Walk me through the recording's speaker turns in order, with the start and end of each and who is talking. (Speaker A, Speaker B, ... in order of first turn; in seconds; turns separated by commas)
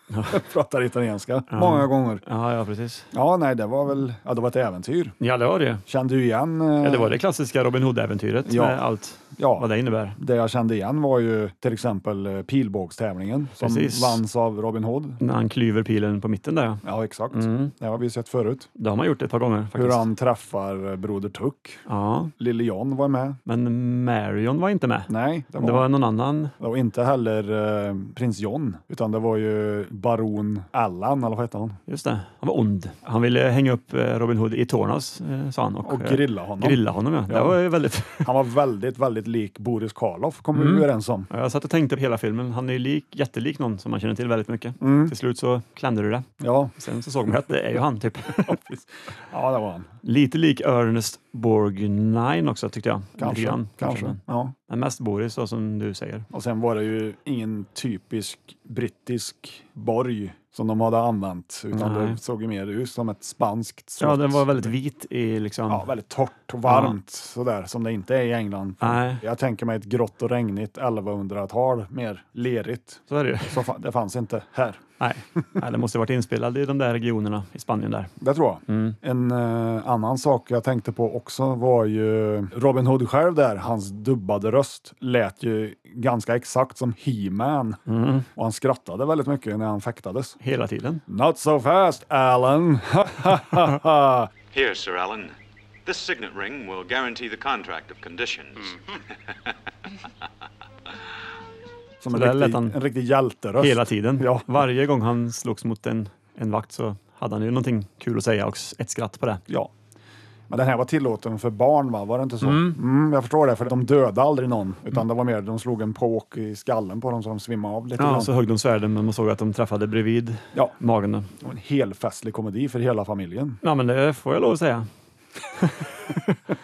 Speaker A: 0.1-0.4, Speaker B: 0.3-2.2, Speaker A: 1.5-3.1, Speaker B: 3.1-5.2, Speaker A: 5.2-5.8, Speaker B: 5.9-7.2, Speaker A: 6.8-10.2, Speaker B: 8.5-8.8, Speaker B: 9.4-15.2, Speaker A: 13.6-14.2, Speaker A: 15.2-17.7, Speaker B: 16.8-18.7, Speaker A: 18.8-20.1, Speaker B: 19.8-21.8, Speaker A: 21.9-22.3, Speaker B: 22.4-23.4, Speaker A: 23.5-26.5, Speaker B: 25.1-25.9, Speaker B: 26.6-31.8, Speaker A: 31.9-38.3, Speaker B: 35.8-37.6, Speaker B: 38.2-41.3, Speaker A: 40.5-48.6, Speaker B: 44.8-45.1, Speaker B: 46.4-46.7, Speaker B: 48.4-49.9, Speaker A: 50.0-56.3, Speaker B: 53.2-54.5, Speaker B: 56.3-64.7, Speaker A: 61.7-62.2, Speaker A: 64.0-65.9, Speaker B: 65.7-74.8, Speaker A: 66.7-67.0, Speaker A: 68.8-69.2, Speaker A: 73.1-73.7, Speaker A: 75.0-78.1, Speaker B: 78.2-87.8, Speaker A: 78.7-79.0, Speaker A: 87.9-88.3, Speaker B: 88.3-90.4, Speaker A: 90.4-91.0, Speaker B: 91.1-94.3, Speaker C: 94.5-95.3, Speaker C: 95.9-98.8, Speaker B: 102.0-104.7, Speaker A: 102.1-102.8, Speaker A: 103.6-109.5, Speaker B: 110.5-118.3, Speaker A: 112.4-112.8, Speaker A: 118.0-121.3, Speaker B: 121.4-123.6, Speaker A: 123.6-124.9, Speaker A: 125.6-126.4